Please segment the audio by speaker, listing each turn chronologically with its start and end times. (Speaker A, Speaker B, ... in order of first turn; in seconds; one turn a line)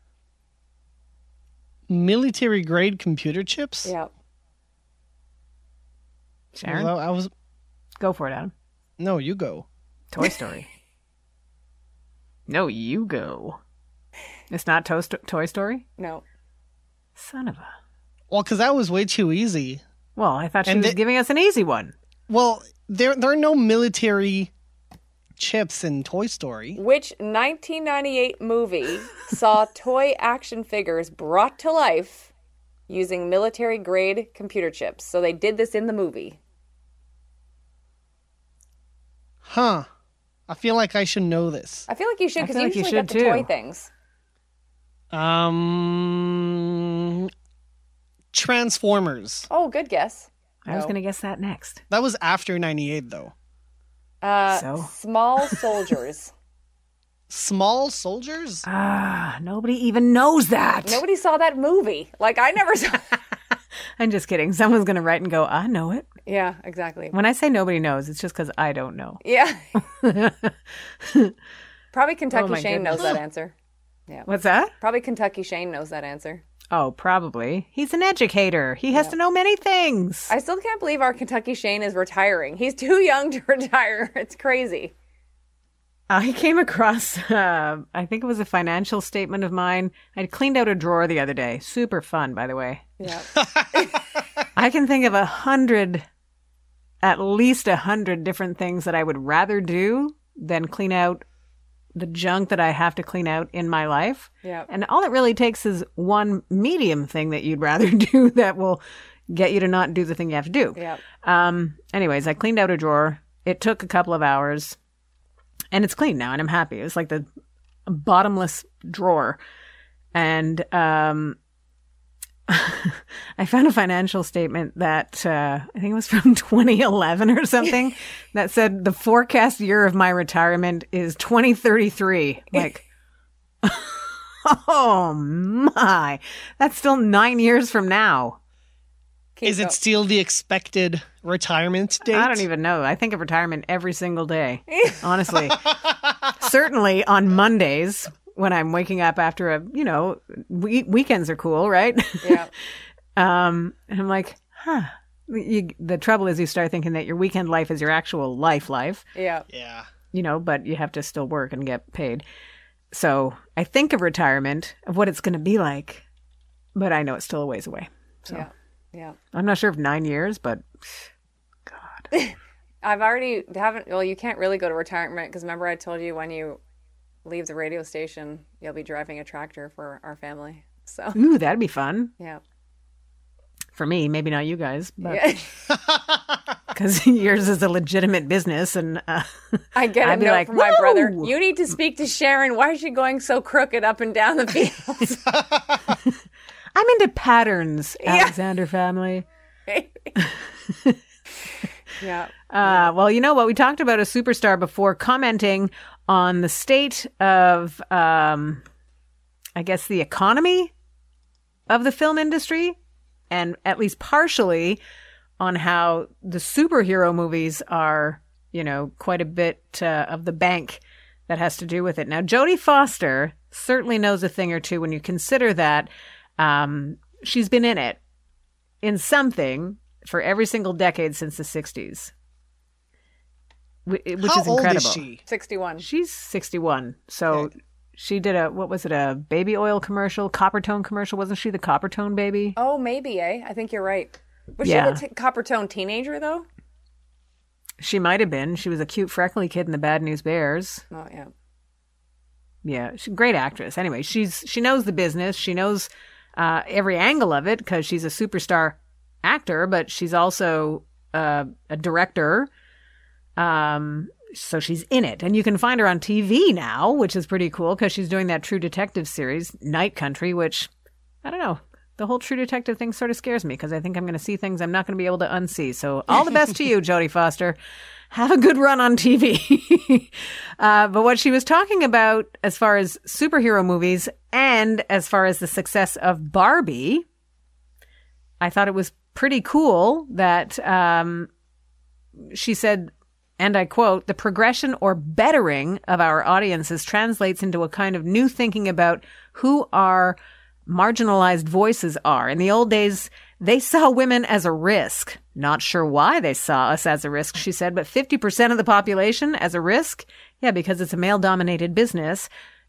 Speaker A: 1.9-3.9
Speaker B: 6.5-6.9
Speaker A: 6.6-7.3
Speaker B: 8.0-8.5
Speaker A: 9.0-9.7
Speaker B: 10.1-10.7
Speaker B: 12.5-13.6
Speaker B: 14.5-15.8
Speaker C: 16.0-16.2
Speaker B: 17.1-17.7
Speaker A: 18.3-19.8
Speaker B: 20.1-21.9
Speaker A: 20.6-21.0
Speaker A: 22.3-24.5
Speaker A: 25.4-26.8
Speaker C: 26.8-32.3
Speaker C: 32.9-36.4
Speaker A: 39.4-39.9
Speaker A: 40.5-41.9
Speaker C: 41.9-43.9
Speaker B: 42.4-43.5
Speaker A: 45.1-47.3
Speaker A: 48.3-49.5
Speaker C: 49.5-50.9
Speaker B: 50.6-51.8
Speaker A: 51.9-53.3
Speaker C: 54.2-56.3
Speaker B: 54.5-54.9
Speaker A: 57.3-58.6
Speaker B: 58.6-61.0
Speaker C: 60.8-63.2
Speaker B: 64.0-66.1
Speaker C: 66.2-67.1
Speaker B: 67.1-69.2
Speaker C: 69.2-69.6
Speaker B: 69.8-71.3
Speaker C: 71.9-73.5
Speaker B: 72.3-73.2
Speaker B: 74.2-74.7
Speaker C: 74.8-76.4
Speaker B: 76.7-80.3
Speaker C: 80.3-84.9
Speaker B: 86.1-92.9
Speaker C: 93.0-94.0
Speaker A: 93.4-93.7
Speaker B: 94.5-96.0
Speaker B: 97.0-101.2
Speaker B: 101.9-114.8
Speaker C: 104.4-104.7
Speaker C: 110.8-111.0
Speaker B: 115.7-117.2
Speaker B: 117.9-119.4
Speaker B: 120.1-121.4
Speaker B: 122.5-132.8
Speaker B: 133.6-138.4
Speaker C: 139.4-139.7
Speaker A: 139.4-142.4
Speaker B: 142.0-145.6
Speaker B: 146.3-152.4
Speaker C: 152.2-152.5
Speaker B: 153.2-159.1
Speaker C: 159.1-159.5
Speaker A: 159.5-159.9
Speaker B: 160.1-162.2
Speaker B: 162.9-166.0
Speaker B: 166.7-168.5
Speaker C: 168.3-169.2
Speaker B: 169.3-171.1
Speaker B: 171.7-172.1
Speaker C: 172.1-176.6
Speaker C: 177.2-181.2
Speaker B: 181.1-182.1
Speaker B: 183.7-185.2
Speaker C: 185.0-185.5
Speaker A: 185.9-186.2
Speaker B: 186.7-191.3
Speaker C: 189.7-195.4
Speaker B: 196.7-199.2
Speaker C: 198.0-198.3
Speaker C: 199.7-200.1
Speaker B: 200.2-201.0
Speaker C: 202.0-202.8
Speaker B: 202.5-208.6
Speaker B: 209.6-210.7
Speaker B: 211.7-212.8
Speaker B: 213.3-214.8
Speaker B: 215.4-228.0
Speaker B: 228.8-232.1
Speaker B: 233.8-235.0
Speaker A: 234.2-235.2
Speaker C: 235.3-235.8
Speaker B: 235.8-242.6
Speaker C: 242.6-246.4
Speaker B: 244.6-245.0
Speaker B: 247.8-250.8
Speaker C: 250.9-251.3
Speaker B: 252.6-262.5
Speaker B: 263.4-270.7
Speaker B: 271.2-277.6
Speaker B: 278.1-287.1
Speaker B: 288.4-291.3
Speaker B: 292.2-312.3